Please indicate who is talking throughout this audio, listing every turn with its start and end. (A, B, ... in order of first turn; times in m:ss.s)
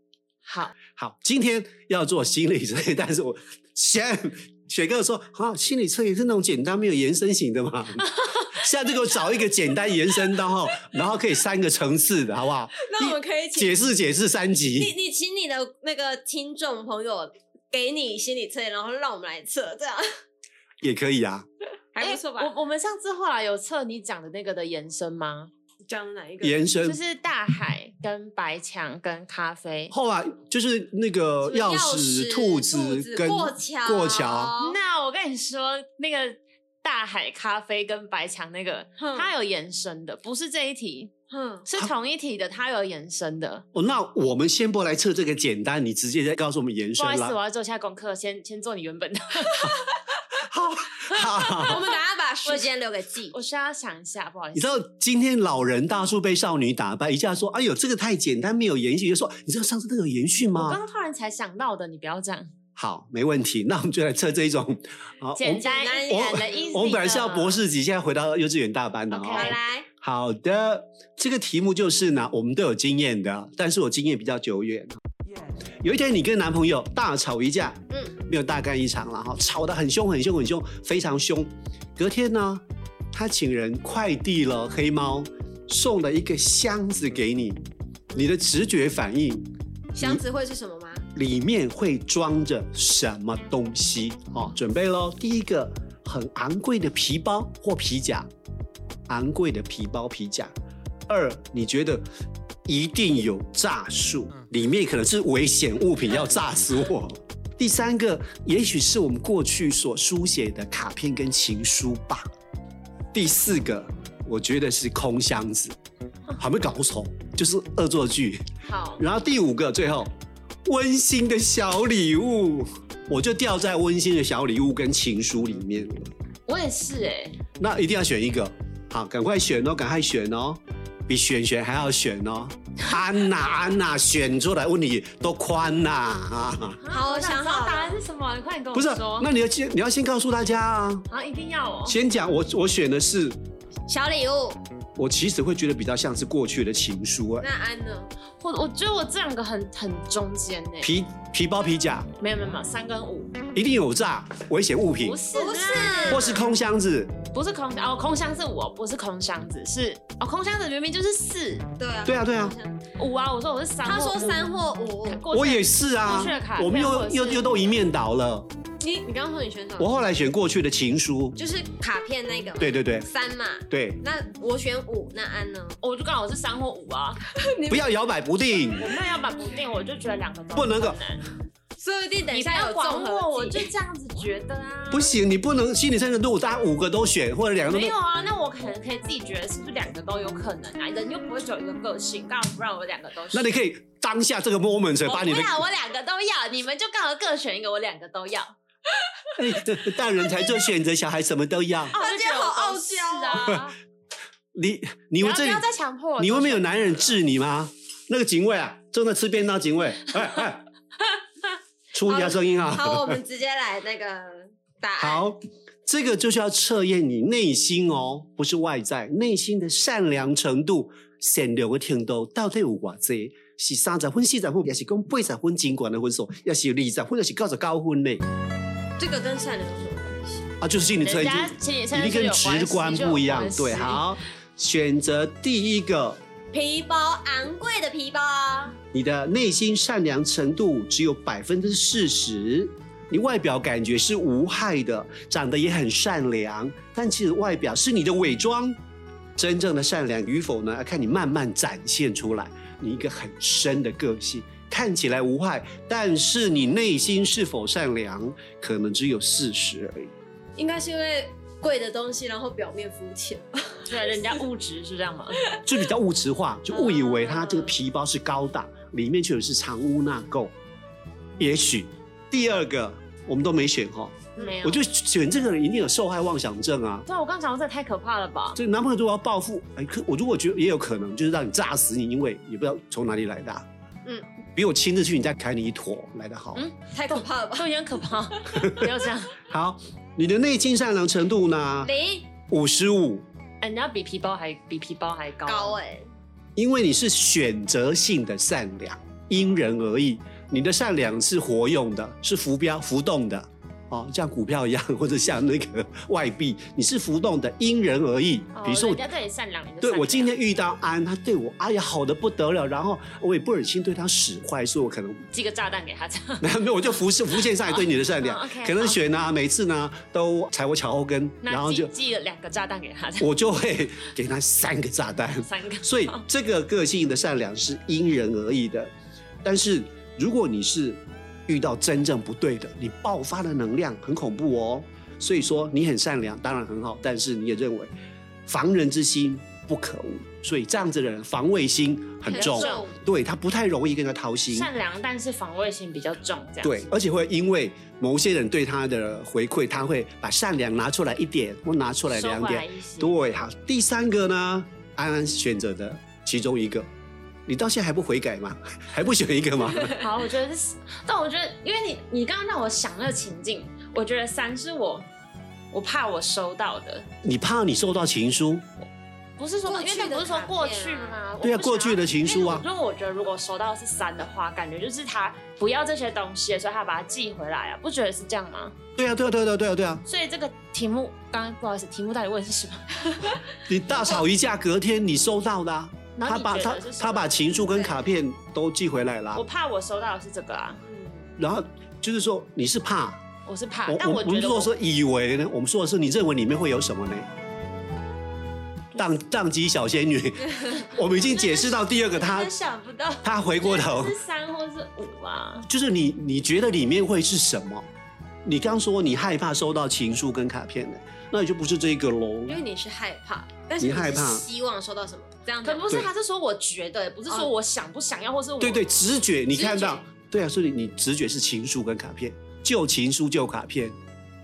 0:00.4-0:00.7 A
0:01.0-0:14.9 B
0:12.8-0:13.8 C
0:14.7-0:20.0 C
0:20.8-0:21.5 B
0:21.9-0:22.5 C
0:22.0-0:25.5 A
0:25.8-0:26.6 C
0:26.4-0:27.0 B
0:26.8-0:29.9 A
0:29.9-0:34.5 B
0:31.4-0:34.8 C
0:34.6-0:41.1 A
0:39.0-0:39.3 C
0:41.3-0:41.7 C
0:41.6-0:43.6 A
0:43.7-0:47.4 B
0:47.0-0:49.9 A
0:50.4-0:51.8 B
0:51.0-0:51.8 A
0:51.6-0:53.3 C
0:52.4-0:52.7 A
0:53.3-0:54.8 A
0:54.5-1:00.8 B
1:00.5-1:02.5 A
1:02.8-1:15.0 B
1:05.4-1:07.6 A
1:05.6-1:07.0 C
1:09.1-1:09.6 A
1:09.3-1:09.9 C
1:15.8-1:27.6 B
1:28.1-1:30.2 B
1:29.9-1:31.0 C
1:31.1-1:38.3 B
1:39.1-1:40.5 B
1:41.1-1:42.0 B
1:42.6-1:52.2 B
1:53.1-1:55.8 B
1:56.4-1:58.4 B
1:58.6-1:59.0 A
1:59.0-2:00.1 B
2:00.6-2:06.1 B
2:06.5-2:07.4 A
2:07.6-2:16.8 B
2:16.8-2:19.3 A
2:16.9-2:18.0 C
2:18.7-2:21.0 B
2:21.1-2:22.0 A
2:21.8-2:23.4 B
2:23.9-2:24.6 C
2:25.0-2:27.5 B
2:27.4-2:28.1 C
2:28.4-2:30.9 A
2:30.8-2:32.1 B
2:32.2-2:33.4 A
2:33.5-2:35.2 B
2:35.0-2:36.4 A
2:35.3-2:36.3 C
2:36.1-2:37.1 B
2:37.3-2:41.6 A
2:41.8-2:42.8 C
2:42.0-2:42.5 B
2:43.0-2:47.8 A
2:43.8-2:45.2 C
2:45.3-2:48.5 B
2:48.8-2:50.0 C
2:49.8-2:51.4 B
2:51.4-2:55.8 C
2:52.6-2:53.1 B
2:53.7-2:54.0 B
2:55.8-2:57.2 A
2:57.4-2:57.9 C
2:57.7-2:58.9 B
2:58.8-3:01.2 A
3:00.5-3:01.0 B
3:01.8-3:03.7 C
3:02.3-3:05.2 A
3:04.9-3:07.9 B
3:07.6-3:13.5 A
3:13.3-3:15.6 B
3:15.0-3:18.5 A
3:19.4-3:21.9 B
3:21.9-3:23.8 A
3:21.9-3:23.6 C
3:24.5-3:25.6 B
3:25.2-3:27.2 A
3:26.2-3:30.6 B
3:31.9-3:33.2 B
3:32.0-3:35.3 C
3:35.0-3:48.2 B
3:49.0-3:50.5 C
3:50.6-3:56.2 B
3:51.0-3:54.1 A
3:56.5-3:58.8 C
3:58.9-4:08.8 B
4:09.4-4:20.1 B
4:20.6-4:24.2 C
4:23.8-4:25.5 A
4:25.6-4:30.5 B
4:26.7-4:27.8 A
4:31.4-4:37.1 B
4:34.4-4:34.9 A
4:37.0-4:38.6 A
4:38.5-4:43.6 B
4:44.5-4:46.6 B
4:46.5-4:49.4 A
4:46.9-4:47.7 C
4:48.6-4:48.9 B
4:49.5-4:51.9 B
4:51.8-4:52.3 C
4:52.5-4:53.2 B
4:53.6-4:55.8 A
4:55.4-4:56.1 C
4:56.6-5:09.0 B
5:08.5-5:10.4 A
5:09.8-5:15.2 B
5:15.3-5:16.5 A
5:16.4-5:21.9 B
5:17.3-5:19.0 A
5:21.4-5:23.3 A
5:23.2-5:28.9 B
5:25.4-5:26.2 A
5:29.4-5:37.9 B
5:38.5-5:44.7 B
5:42.2-5:43.0 C
5:42.3-5:42.9 A
5:44.5-5:46.9 A
5:46.6-5:56.9 B
5:52.1-5:53.2 A
5:57.5-5:59.9 B
5:59.9-6:05.1 A
6:05.7-6:07.1 A
6:07.2-6:08.6 B
6:08.8-6:18.7 A
6:09.6-6:11.2 C
6:11.4-6:12.6 B
6:19.0-6:20.0 B
6:20.0-6:24.2 A
6:23.6-6:29.4 B
6:26.1-6:27.6 A
6:27.6-6:28.1 C
6:29.3-6:30.8 A
6:30.8-6:31.3 C
6:31.4-6:33.2 B
6:33.4-6:34.7 A
6:33.9-6:37.3 B
6:39.0-6:42.5 B
6:41.0-6:45.7 A
6:43.2-6:44.2 B
6:45.7-6:47.9 B
6:48.4-6:52.6 B
6:52.4-6:56.0 C
6:53.8-6:54.4 B
6:55.6-6:58.8 A
6:58.6-7:04.0 B
6:59.5-7:00.0 C